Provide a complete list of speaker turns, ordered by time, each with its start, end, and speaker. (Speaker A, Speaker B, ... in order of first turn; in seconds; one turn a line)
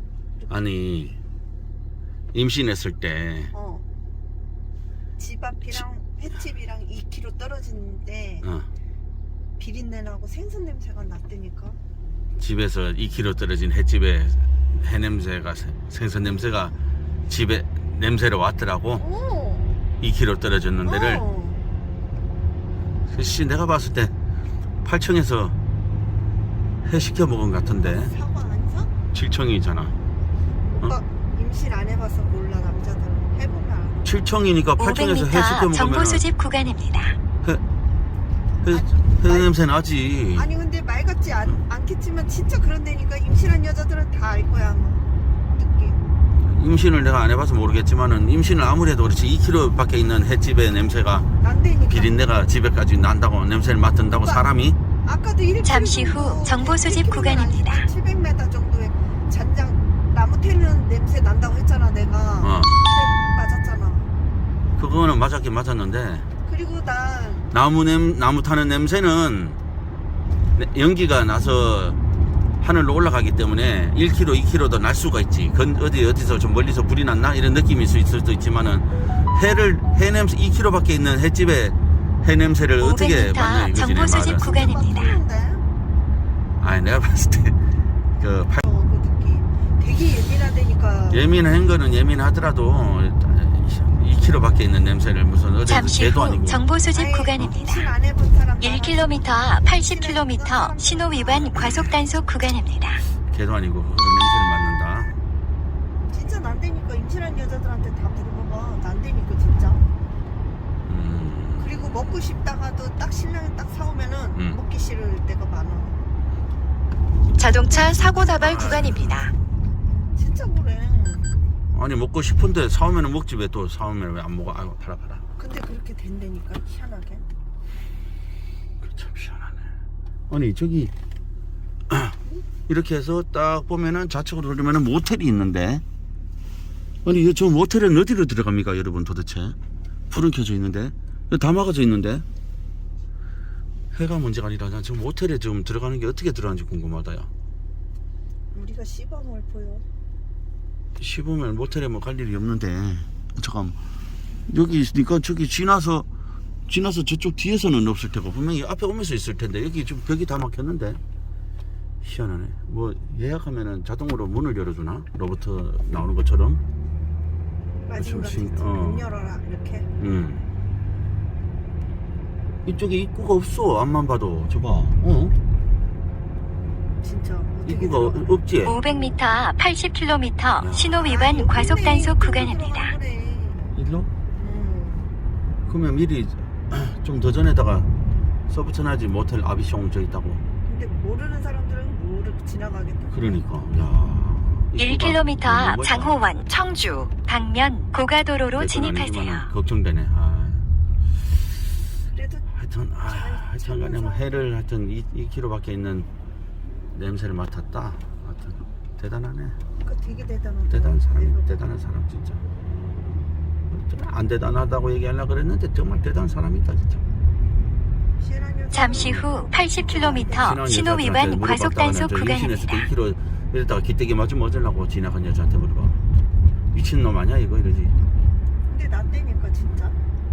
Speaker A: 0.5-1.2
Speaker A: 2.3-3.5
Speaker B: 3.5-3.8
Speaker B: 5.2-8.5
Speaker A: 8.4-8.7
Speaker B: 9.6-11.8
Speaker A: 12.4-16.7
Speaker A: 17.3-19.0
Speaker B: 18.9-19.8
Speaker A: 20.0-21.2
Speaker B: 20.8-21.7
Speaker A: 23.1-24.1
Speaker A: 24.8-25.6
Speaker A: 26.8-28.1
Speaker B: 27.5-28.9
Speaker A: 29.1-29.9
Speaker B: 30.6-34.0
Speaker A: 34.0-36.2
Speaker C: 34.8-37.2
Speaker A: 38.6-40.5
Speaker B: 38.7-39.5
Speaker B: 40.3-46.1
Speaker A: 46.4-51.3
Speaker B: 51.4-52.1
Speaker A: 51.9-54.8
Speaker B: 54.1-54.5
Speaker B: 55.0-64.1
Speaker C: 55.6-57.9
Speaker A: 62.4-62.7
Speaker A: 64.8-66.3
Speaker B: 66.5-67.4
Speaker A: 67.5-69.6
Speaker A: 70.5-72.0
Speaker A: 72.6-84.7
Speaker C: 82.8-85.2
Speaker B: 84.2-85.6
Speaker A: 86.6-87.6
Speaker A: 88.1-88.6
Speaker B: 88.6-91.4
Speaker A: 91.1-96.6
Speaker C: 95.7-97.9
Speaker B: 96.9-101.6
Speaker C: 98.6-103.0
Speaker A: 101.5-102.0
Speaker A: 103.2-105.2
Speaker B: 106.1-109.8
Speaker A: 110.8-111.8
Speaker B: 111.6-116.0
Speaker A: 114.3-114.6
Speaker C: 117.4-119.3
Speaker B: 117.6-117.9
Speaker A: 117.8-119.3
Speaker B: 120.0-121.5
Speaker A: 121.7-125.2
Speaker B: 125.4-127.2
Speaker A: 128.8-129.6
Speaker A: 130.3-130.9
Speaker A: 131.9-135.8
Speaker A: 137.0-139.6
Speaker A: 140.1-142.2
Speaker A: 143.9-147.3
Speaker B: 148.5-149.8
Speaker A: 151.0-153.8
Speaker A: 154.5-156.1
Speaker A: 156.7-161.0
Speaker A: 162.0-166.6
Speaker B: 167.8-169.9
Speaker A: 168.0-169.0
Speaker A: 170.0-170.4
Speaker A: 172.7-175.3
Speaker B: 177.0-179.2
Speaker A: 177.7-178.8
Speaker C: 178.6-182.9
Speaker A: 180.6-181.1
Speaker B: 181.0-183.8
Speaker A: 183.7-184.1
Speaker B: 184.3-185.1
Speaker A: 185.7-187.9
Speaker A: 188.5-190.4
Speaker B: 190.6-193.4
Speaker A: 193.1-196.2
Speaker C: 194.8-199.5
Speaker A: 198.5-200.7
Speaker B: 202.1-202.5
Speaker A: 202.5-206.1
Speaker B: 203.1-204.5
Speaker A: 206.9-209.6
Speaker B: 209.8-211.5
Speaker A: 210.7-212.4
Speaker A: 213.7-217.0
Speaker B: 218.2-220.6
Speaker C: 218.7-222.9
Speaker A: 218.9-219.2
Speaker A: 219.9-226.0
Speaker A: 226.7-227.9
Speaker B: 228.7-230.0